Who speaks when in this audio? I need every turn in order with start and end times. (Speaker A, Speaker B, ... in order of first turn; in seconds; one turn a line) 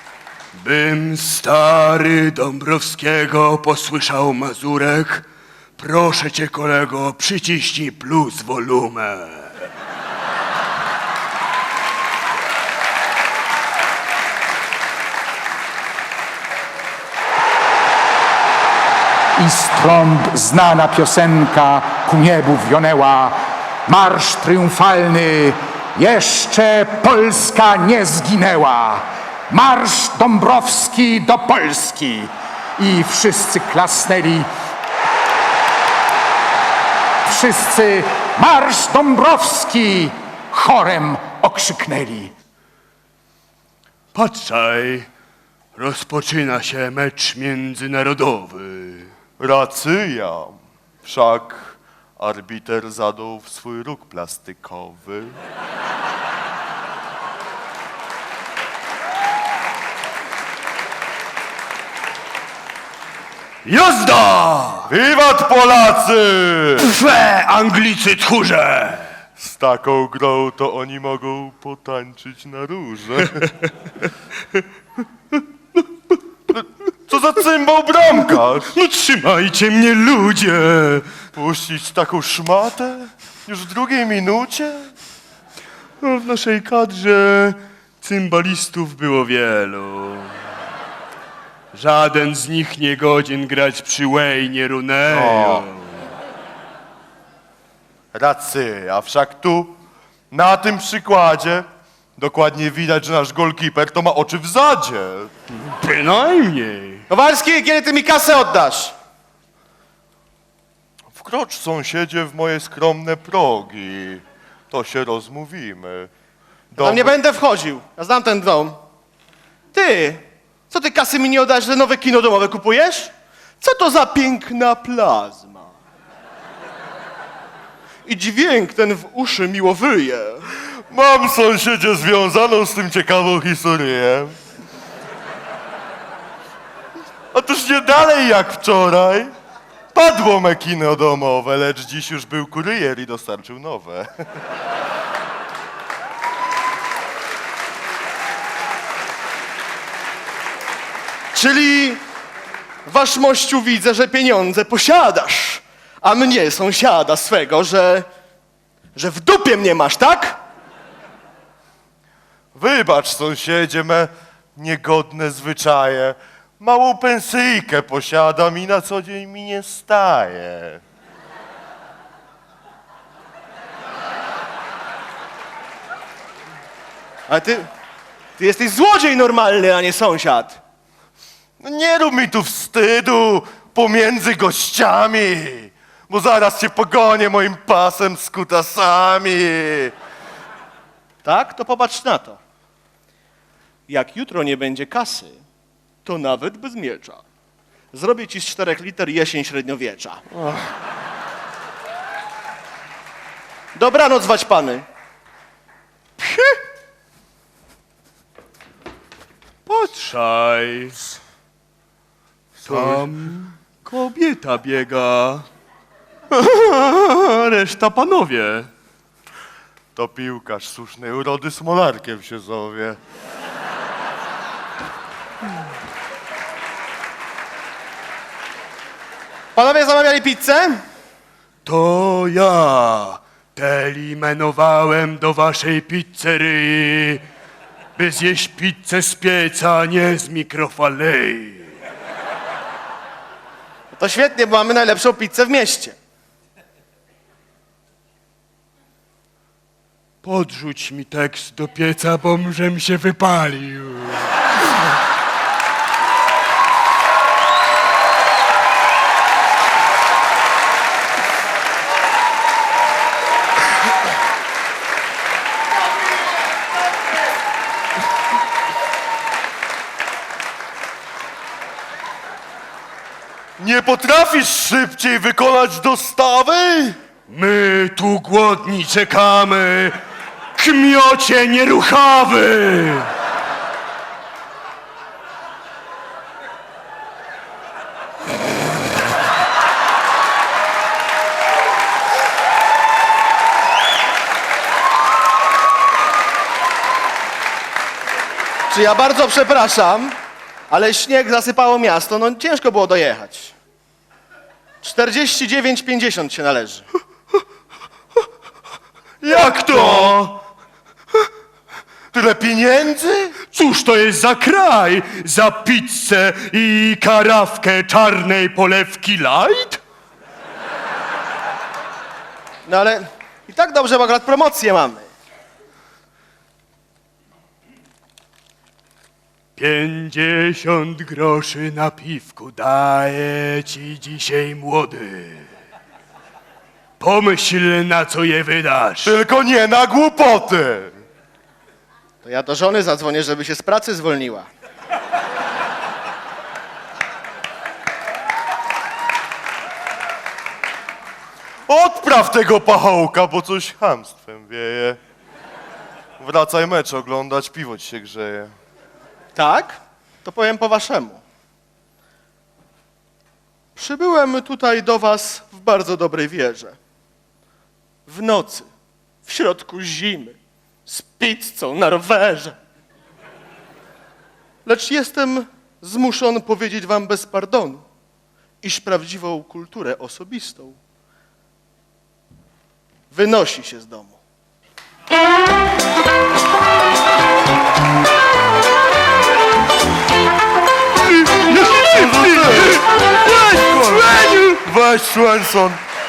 Speaker A: 0.5-5.3
Speaker A: 5.8-9.7
Speaker B: 19.4-34.5
Speaker B: 37.2-42.3
Speaker A: 44.1-45.1
Speaker A: 45.8-49.1
Speaker C: 49.4-50.5
Speaker C: 51.0-55.4
Speaker A: 63.6-64.9
Speaker C: 64.9-66.9
Speaker A: 66.8-69.1
Speaker C: 69.4-73.5
Speaker C: 76.5-78.7
Speaker A: 78.7-81.0
Speaker C: 81.3-84.9
Speaker A: 86.0-90.3
Speaker A: 91.7-96.1
Speaker C: 95.1-95.7
Speaker C: 98.1-99.7
Speaker C: 100.3-101.6
Speaker C: 102.2-105.3
Speaker A: 105.6-107.0
Speaker D: 107.1-108.9
Speaker C: 111.1-116.1
Speaker C: 116.7-117.1
Speaker D: 116.8-118.8
Speaker D: 119.7-125.7
Speaker D: 128.0-130.5
Speaker C: 130.9-134.3
Speaker C: 137.3-139.3
Speaker C: 139.9-144.1
Speaker D: 151.3-152.0
Speaker D: 152.8-158.1
Speaker D: 158.9-160.4
Speaker C: 162.5-170.8
Speaker D: 177.3-177.7
Speaker D: 178.4-180.6
Speaker C: 181.6-189.9
Speaker D: 191.2-192.4
Speaker D: 193.9-195.4
Speaker D: 196.0-197.2
Speaker D: 197.9-200.2
Speaker D: 203.7-204.8
Speaker A: 209.7-211.0
Speaker A: 212.6-215.5
Speaker C: 212.6-213.1
Speaker A: 216.3-218.7
Speaker C: 219.9-223.0
Speaker D: 229.5-230.8
Speaker A: 231.6-237.2
Speaker A: 237.9-241.8
Speaker D: 243.9-246.0
Speaker A: 250.2-254.3
Speaker C: 273.6-276.9
Speaker A: 277.3-279.9
Speaker A: 280.6-283.1
Speaker D: 298.7-300.1
Speaker D: 300.7-303.5
Speaker D: 304.8-306.9
Speaker C: 309.2-310.2
Speaker A: 309.3-310.4
Speaker C: 312.1-313.3
Speaker A: 313.5-319.8
Speaker D: 322.6-325.1
Speaker A: 329.6-335.5
Speaker A: 337.0-339.1
Speaker C: 339.0-340.9
Speaker D: 342.2-344.5
Speaker C: 351.7-355.0
Speaker C: 356.2-358.5
Speaker D: 359.3-361.2
Speaker D: 363.7-366.8
Speaker D: 368.1-368.7
Speaker D: 369.2-372.5
Speaker D: 374.6-377.8
Speaker D: 378.6-380.8
Speaker D: 383.1-384.2
Speaker A: 391.2-394.5
Speaker C: 391.5-392.8
Speaker C: 393.8-395.8